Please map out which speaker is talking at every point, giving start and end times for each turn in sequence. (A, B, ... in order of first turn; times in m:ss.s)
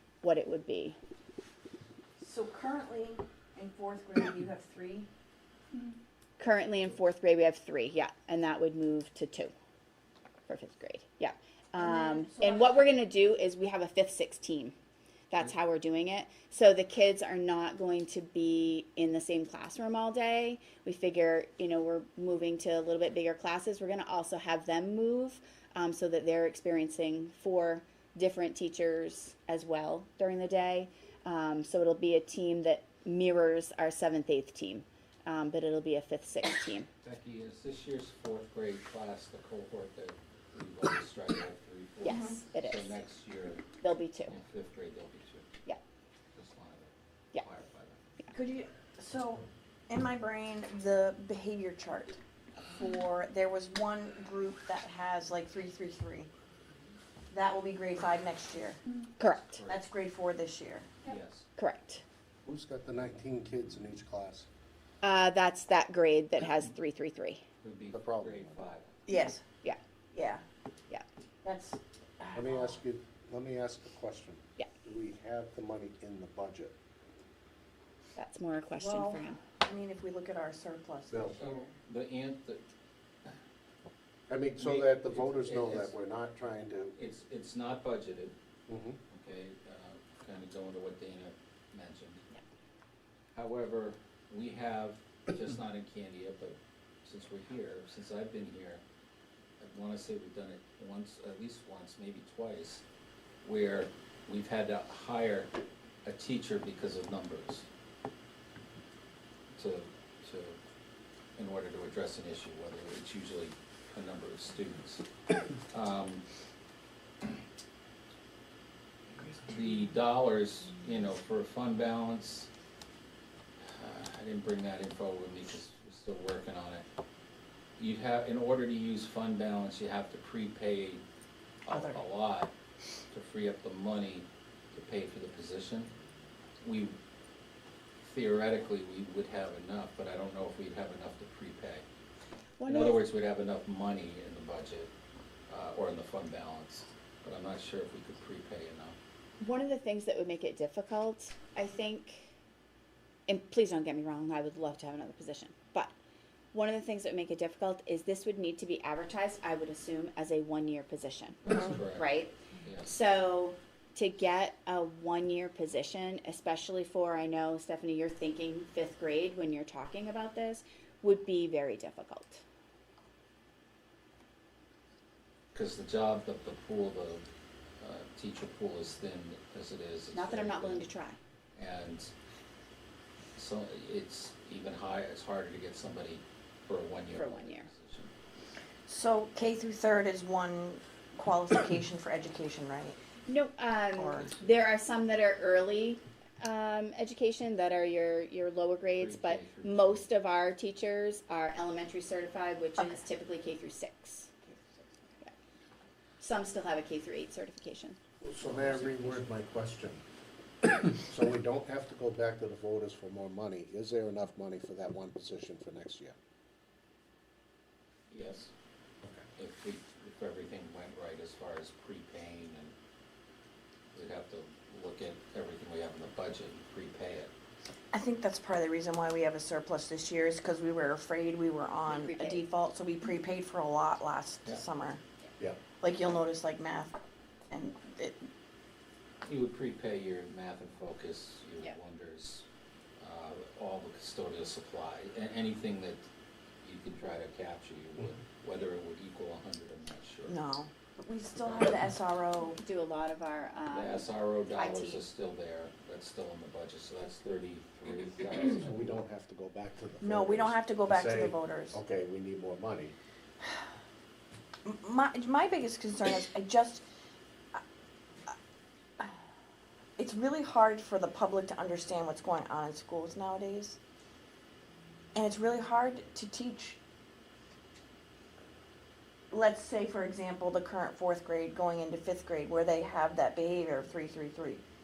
0:00.2-0:01.0 A
0:02.2-0:05.1 B
0:06.4-0:09.5 A
0:10.5-0:14.7 A
0:11.8-0:12.8 B
0:15.3-0:36.9 A
0:37.0-0:43.7 C
0:42.0-0:42.9 A
0:42.0-0:42.4 B
0:43.8-0:44.3 A
0:44.3-0:45.5 C
0:46.3-0:48.0 C
0:48.3-0:56.3 B
0:57.3-0:58.8 B
0:59.2-0:59.5 A
0:59.2-0:59.8 C
0:59.6-1:00.9 B
1:01.0-1:01.5 C
1:01.6-1:02.0 A
1:02.4-1:04.5 D
1:05.0-1:07.4 A
1:07.6-1:09.0 C
1:07.9-1:08.6 D
1:09.1-1:09.4 B
1:10.1-1:10.4 B
1:11.4-1:12.8 B
1:12.3-1:16.8 D
1:18.2-1:19.4 A
1:18.7-1:21.7 B
1:21.1-1:21.4 D
1:21.4-1:22.6 C
1:24.3-1:26.9 D
1:24.6-1:25.9 C
1:26.9-1:28.3 C
1:28.7-1:29.0 D
1:29.1-1:32.2 C
1:33.3-1:38.8 C
1:39.6-1:42.8 C
1:43.4-1:45.5 C
1:46.0-1:47.6 C
1:49.5-1:50.6 C
1:51.4-1:55.0 C
1:55.7-1:56.2 C
1:59.3-2:02.5 C
2:03.8-2:06.8 C
2:07.8-2:11.0 C
2:11.6-2:12.5 C
2:11.7-2:12.0 B
2:13.1-2:15.9 C
2:16.6-2:16.9 C
2:18.0-2:21.8 C
2:22.6-2:23.0 A
2:22.7-2:24.9 C
2:25.5-2:29.0 C
2:29.4-2:32.3 A
2:33.3-2:35.9 A
2:36.5-2:52.4 A
2:41.4-2:42.0 C
2:42.6-2:42.9 C
2:55.5-2:57.2 C
2:57.8-3:00.8 C
3:00.1-3:01.2 A
3:01.6-3:02.1 C
3:03.4-3:08.1 C
3:07.1-3:07.7 A
3:08.9-3:13.0 B
3:13.3-3:24.5 A
3:13.9-3:14.4 B
3:19.0-3:20.1 C
3:26.2-3:28.0 A
3:28.2-3:30.0 D
3:28.4-3:29.2 C
3:31.0-3:36.1 D
3:38.1-3:38.5 C
3:39.4-3:42.7 C
3:43.9-3:47.3 C
3:47.9-3:55.0 B
3:51.9-3:52.4 A
3:55.8-3:57.0 B
3:57.5-3:58.3 B
3:59.2-4:02.4 C
4:03.0-4:06.0 C
4:06.6-4:10.4 C
4:10.3-4:12.6 B
4:11.4-4:11.8 C
4:12.6-4:15.0 A
4:13.7-4:19.0 C
4:18.6-4:22.9 D
4:20.0-4:21.8 B
4:23.4-4:23.7 B
4:24.6-4:26.8 B
4:30.0-4:33.8 B
4:35.1-4:36.8 B
4:39.3-4:44.6 B